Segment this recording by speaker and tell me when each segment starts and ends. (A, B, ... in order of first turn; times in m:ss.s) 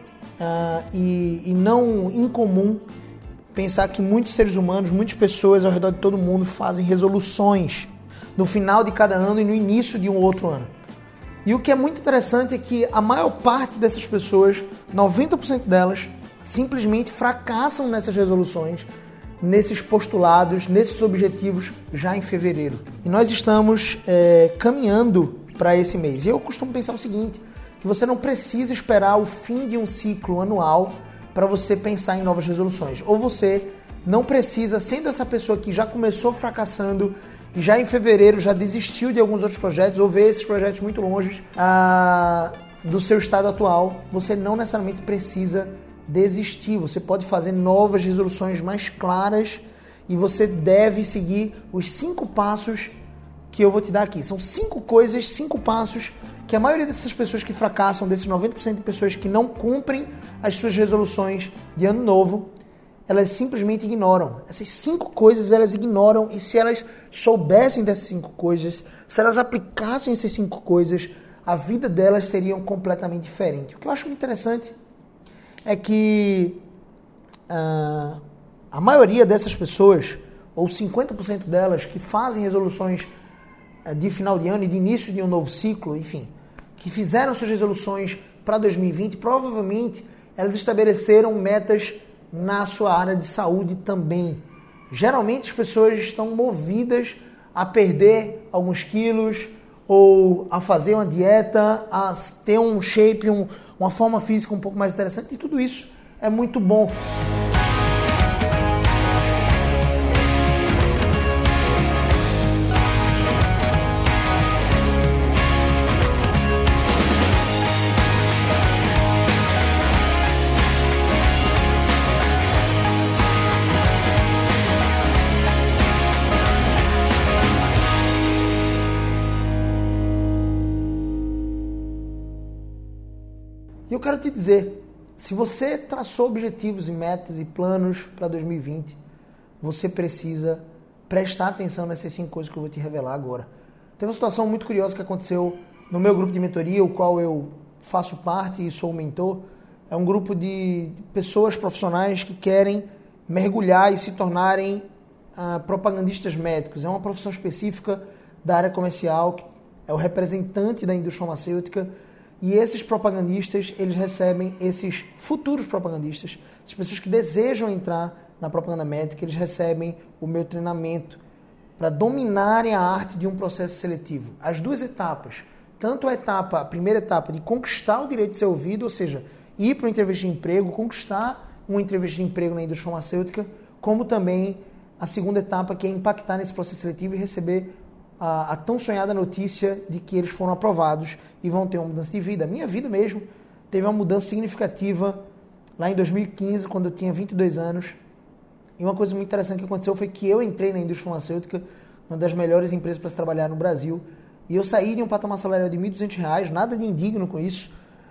0:00.4-0:02.8 A
0:03.5-0:10.7 A
0:11.4-0:18.9 A
0:19.4-0:52.9 A
0:53.5-1:02.5 A
1:03.1-1:14.7 A
1:15.6-1:16.6 A
1:17.5-1:18.2 A
1:18.7-1:23.1 A
1:23.8-1:47.0 A
2:13.9-2:19.0 A
2:19.6-2:41.9 A
2:42.4-2:51.2 A
2:51.8-3:15.2 A
3:15.8-3:18.0 A
3:18.8-3:27.7 A